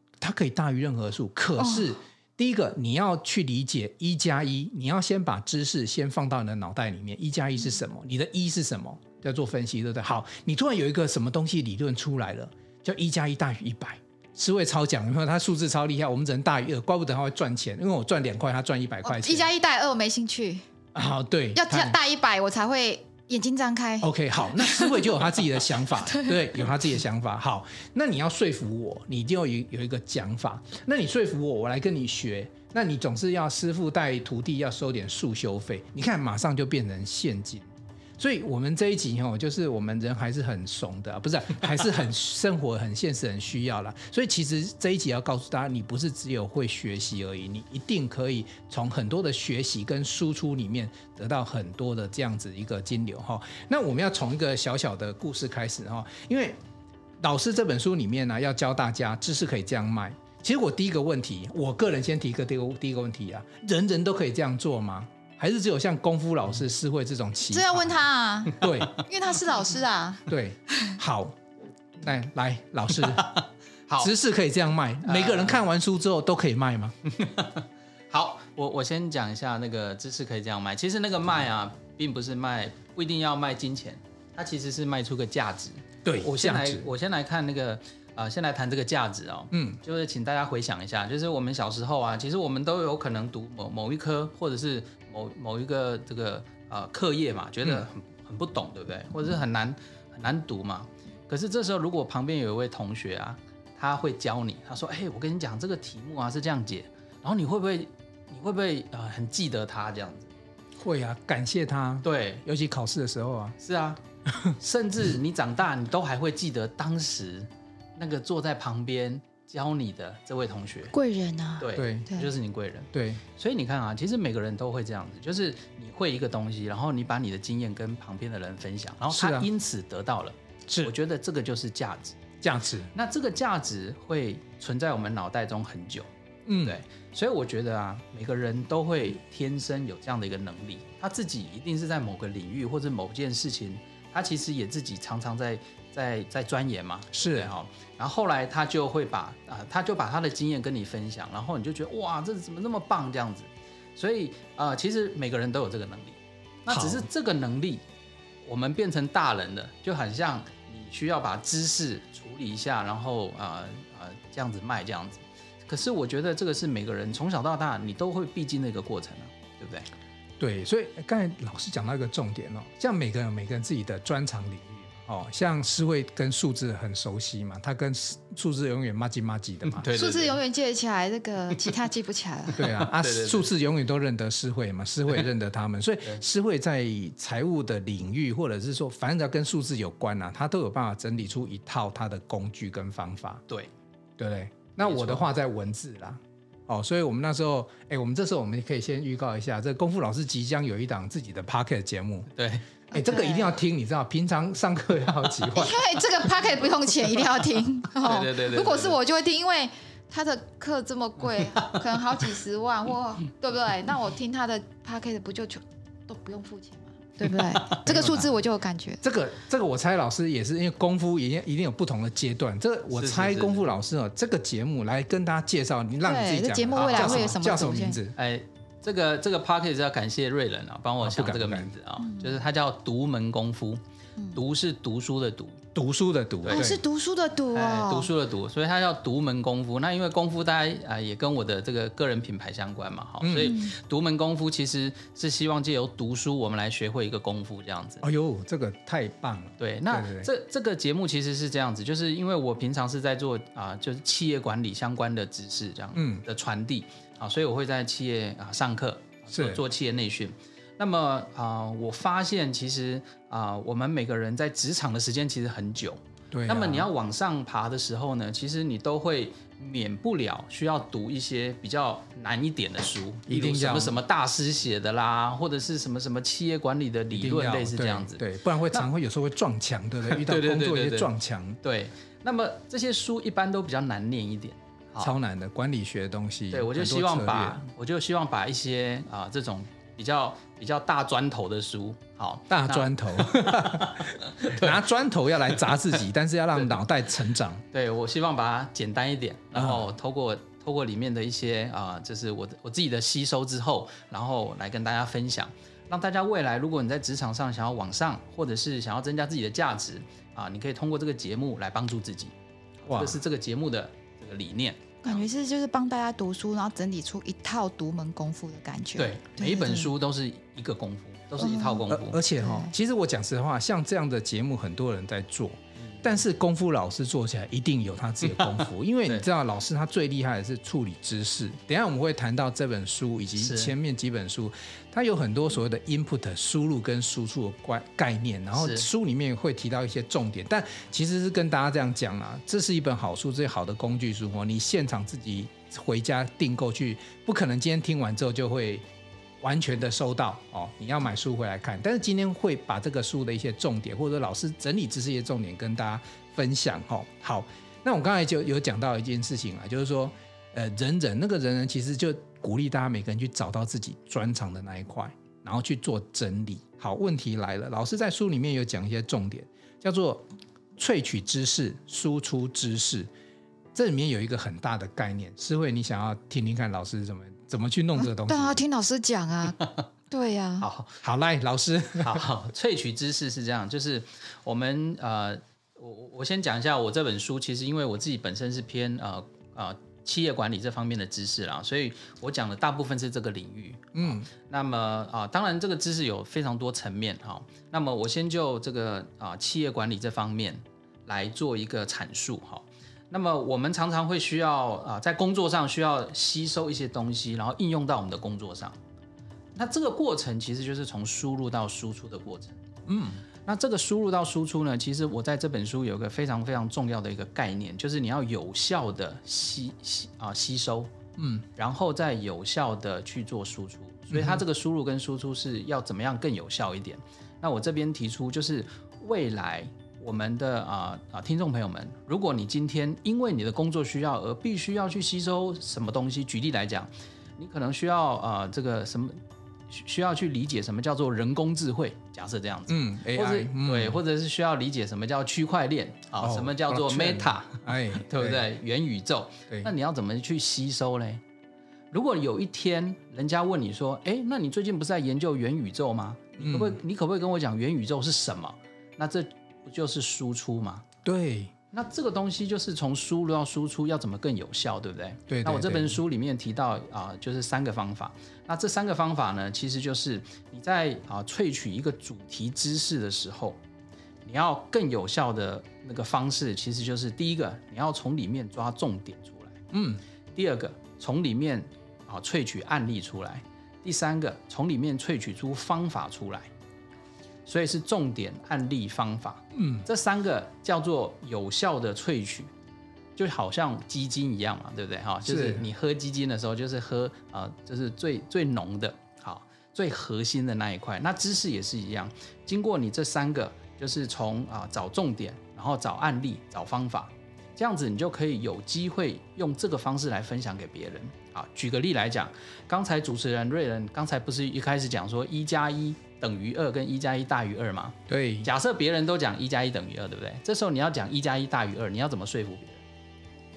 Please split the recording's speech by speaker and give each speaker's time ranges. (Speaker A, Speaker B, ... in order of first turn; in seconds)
Speaker A: 0.2-19.5, 20.9-21.9, 24.0-56.6, 57.2-67.9, 68.5-69.0, 70.3-71.4, 72.0-73.2, 74.0-77.0, 86.0-86.9, 89.5-89.8, 110.8-113.5, 114.3-114.5, 121.7-122.1, 122.9-123.2, 129.1-129.5, 132.4-132.9, 136.4-136.8, 147.1-147.5, 156.7-157.1, 170.4-179.9, 182.6-193.4, 194.2-202.3, 202.9-205.9, 217.9-218.3, 219.0-228.1, 231.0-231.7, 235.7-236.8, 243.2-243.5, 248.0-250.3, 255.9-256.2, 259.3-259.6, 266.3-266.9, 273.3-274.0, 277.1-281.6, 285.0-287.6, 292.5-297.6, 299.5-299.9, 312.9-313.2, 321.9-348.9, 349.4-370.2, 370.8-373.1, 373.7-378.6, 381.0-382.3, 393.9-394.3, 412.9-413.2, 421.2-421.4, 424.1-424.4, 442.7-444.0, 446.2-448.4, 456.4-456.8, 461.0-461.5, 465.3-466.0, 479.7-480.0, 489.5-489.8, 495.2-495.6, 518.1-518.5
Speaker B: 1.6-1.9, 19.0-20.6, 21.5-26.4, 67.5-70.3, 120.9-122.3, 179.9-182.7, 202.9-203.6, 205.5-219.0, 226.0-228.0, 232.0-232.3, 236.5-238.1, 243.4-243.7, 315.0-319.9, 321.4-322.7, 378.0-380.7
Speaker C: 73.0-74.1, 75.0-75.6, 77.1-110.3, 112.0-112.4, 113.6-114.0, 114.6-120.9, 121.6-132.2, 132.9-136.1, 136.6-157.8, 158.4-169.9, 179.7-180.4, 182.6-183.5, 194.8-195.3, 202.3-202.6, 208.0-209.0, 211.4-211.8, 217.3-218.2, 222.9-223.7, 226.7-227.4, 228.1-233.8, 234.3-235.6, 236.4-236.7, 237.5-248.0, 249.6-278.9, 280.1-281.1, 281.6-285.1, 286.5-294.7, 297.7-315.2, 319.0-322.2, 325.8-326.1, 328.2-329.2, 333.4-333.7, 338.5-338.9, 380.6-381.0, 382.0-408.8, 409.6-412.6, 413.4-420.9, 421.6-451.2, 451.9-460.9, 461.7-473.6, 474.2-479.6, 480.3-486.5, 487.4-492.5, 493.1-522.8